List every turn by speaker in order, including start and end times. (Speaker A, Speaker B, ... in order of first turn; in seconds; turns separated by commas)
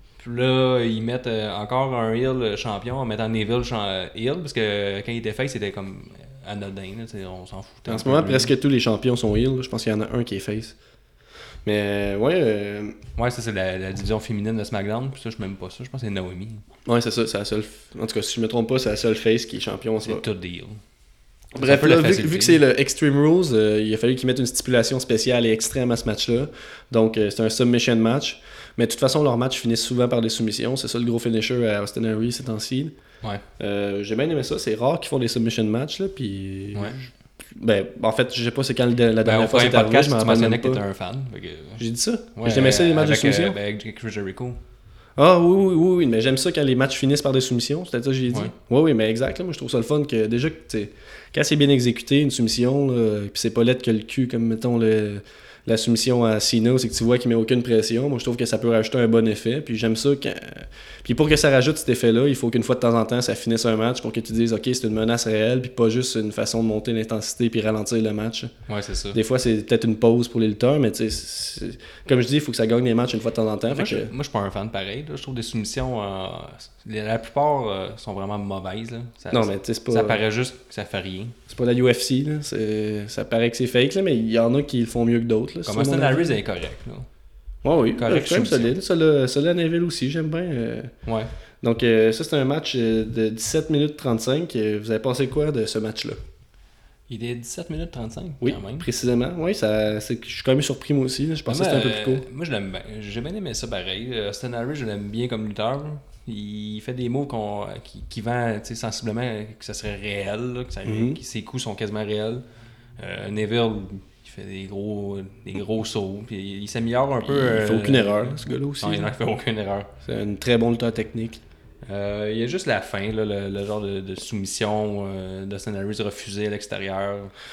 Speaker A: 0.2-8.5, Speaker B: 7.9-10.7, Speaker B: 11.7-13.0, Speaker A: 13.2-16.6, Speaker B: 16.9-20.2, Speaker A: 20.0-20.8, Speaker B: 21.6-32.9, Speaker A: 21.6-22.6, Speaker B: 33.6-40.8, Speaker A: 39.2-41.8, Speaker B: 41.8-43.6, Speaker A: 42.4-44.6, Speaker B: 45.2-68.5, Speaker A: 68.7-69.2, Speaker B: 69.1-74.1, Speaker A: 73.7-81.4, Speaker B: 79.3-80.2, Speaker B: 81.5-86.4, Speaker A: 85.7-87.1, Speaker B: 87.6-90.9, Speaker A: 88.0-88.7, Speaker A: 91.0-91.3, Speaker B: 91.6-96.2, Speaker A: 97.1-98.9, Speaker B: 98.4-102.2, Speaker A: 101.5-112.4, Speaker B: 110.8-111.2, Speaker A: 113.0-119.9, Speaker B: 117.3-119.1, Speaker B: 120.0-121.4, Speaker A: 121.8-127.3